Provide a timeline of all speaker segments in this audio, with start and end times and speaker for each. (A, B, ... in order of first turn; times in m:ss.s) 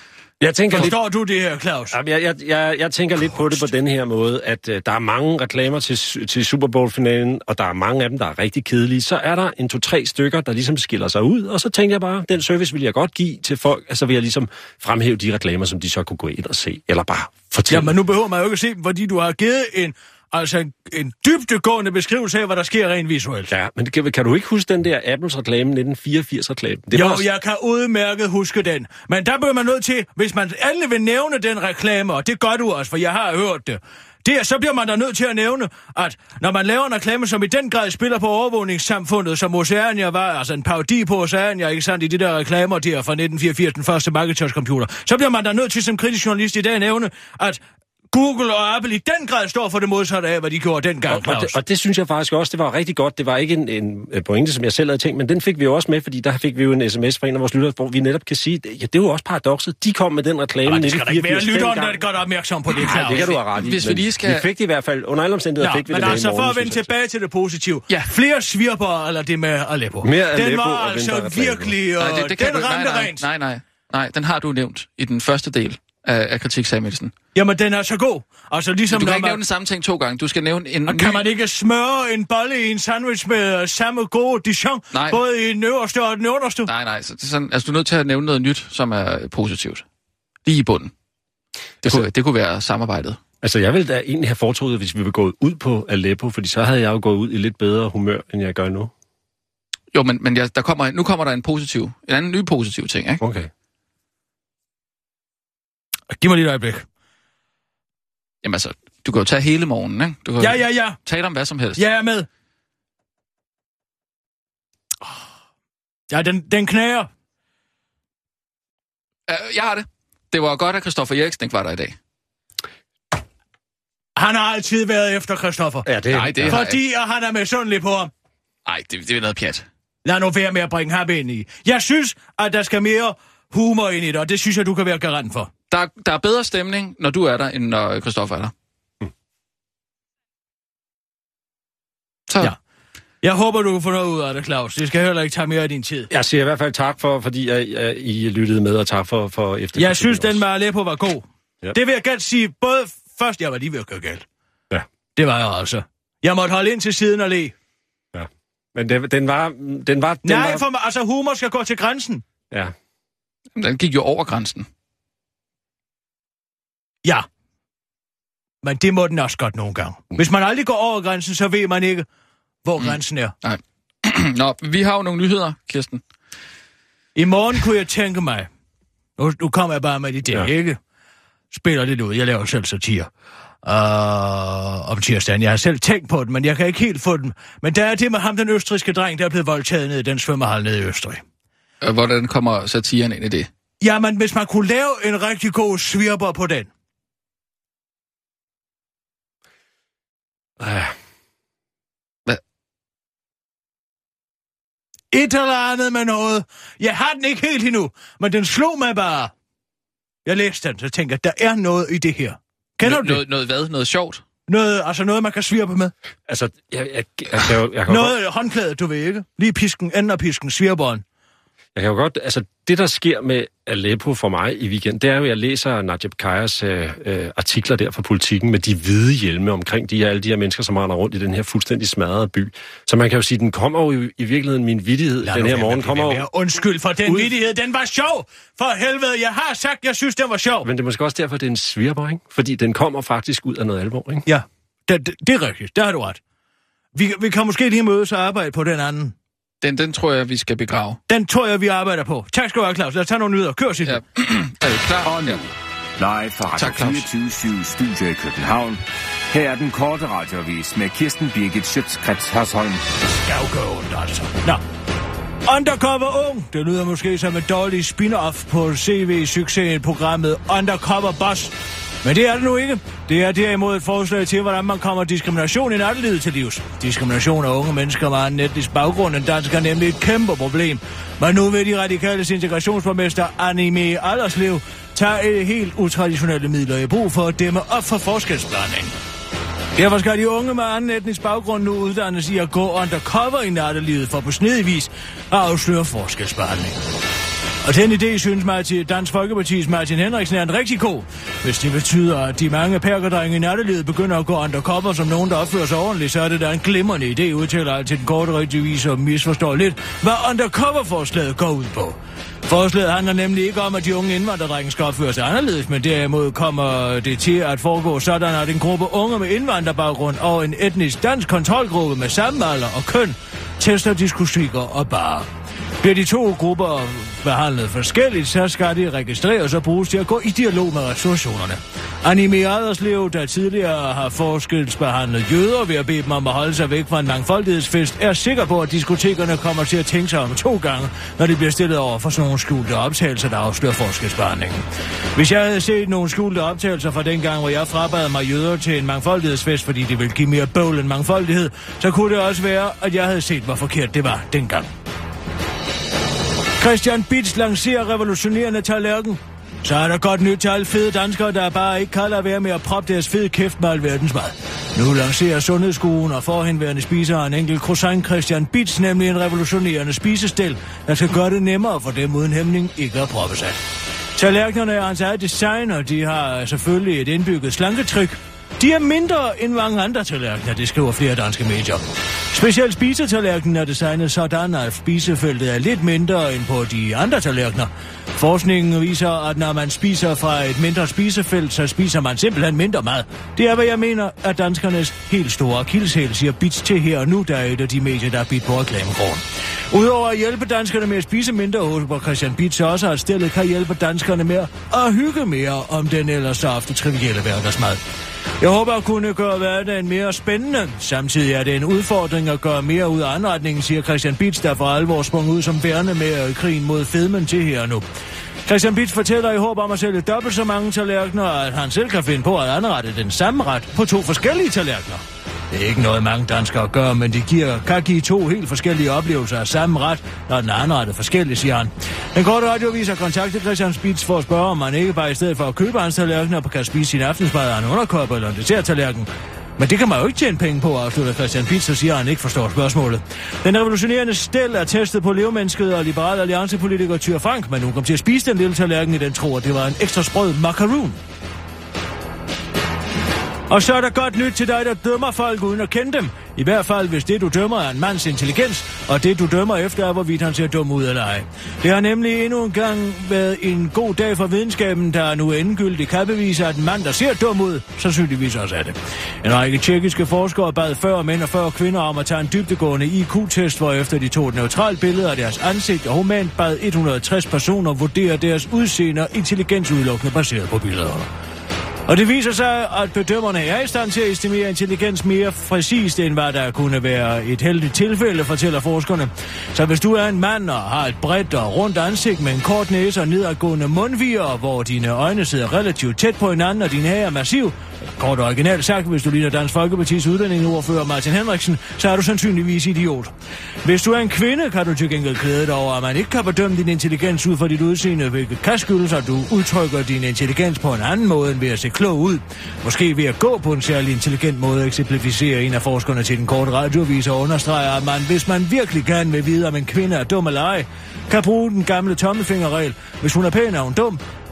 0:00.4-0:01.0 A
0:00.7-0:02.0 B
0:01.9-0:17.9 A
0:17.7-0:23.5 B
0:23.5-0:27.3 A
0:26.9-0:47.6 B
0:48.1-0:51.6 B
0:51.1-1:02.0 A
1:00.6-1:03.2 B
1:02.8-1:06.9 A
1:02.8-1:04.5 C
1:05.6-1:13.2 B
1:10.0-1:11.8 A
1:12.0-1:17.1 C
1:17.4-1:19.4 B
1:18.9-1:21.3 C
1:20.9-1:26.7 B
1:24.9-1:25.2 C
1:26.7-1:29.8 C
1:30.4-1:30.9 C
1:31.8-1:33.2 C
1:33.4-1:38.9 A
1:39.9-1:43.2 C
1:43.2-1:43.5 A
1:46.2-1:46.8 B
1:48.4-1:51.8 C
1:50.4-1:51.0 B
1:51.8-1:52.3 B
1:56.1-1:57.1 B
1:59.3-2:02.0 C
2:04.2-2:05.9 B
2:05.8-2:06.6 A
2:06.1-2:06.8 C
2:06.4-2:08.1 B
2:08.7-2:09.7 C
2:10.0-2:15.5 B
2:15.7-2:18.5 C
2:23.2-2:26.1 B
2:26.1-2:30.4 A
2:29.8-2:34.2 B
2:35.2-2:37.5 B
2:38.2-2:40.6 A
2:40.2-2:42.2 B
2:43.6-2:44.7 C
2:48.6-2:52.1 B
2:52.6-2:53.3 B
2:52.8-2:56.0 C
2:57.2-2:58.5 B
2:59.2-3:00.8 B
3:01.5-3:03.1 B
3:03.6-3:11.2 B
3:11.8-3:13.5 C
3:13.8-3:16.7 B
3:20.6-3:20.9 A
3:25.1-3:29.3 B
3:30.3-3:33.2 B
3:32.8-3:34.2 C
3:34.5-3:35.9 B
3:36.3-3:38.2 A
3:37.9-3:41.0 B
3:41.8-3:56.3 A
3:55.2-4:00.7 B
3:57.0-3:57.4 A
4:00.6-4:04.2 A
4:04.3-4:06.2 B
4:07.0-4:09.2 B
4:09.6-4:11.0 C
4:11.1-4:14.0 B
4:13.9-4:15.4 C
4:15.0-4:22.8 D
4:16.6-4:17.1 C
4:23.2-4:24.6 B
4:25.5-4:31.5 B
4:32.0-4:48.9 B
4:49.8-4:56.8 B
4:57.6-5:25.3 B
5:25.8-5:44.6 B
5:45.2-5:54.7 B
5:56.6-6:13.6 B
6:14.2-6:47.8 B
6:48.4-6:57.8 B
6:58.5-7:31.0 B
7:33.5-8:01.1 B
8:01.9-8:23.1 B
8:23.6-8:44.0 B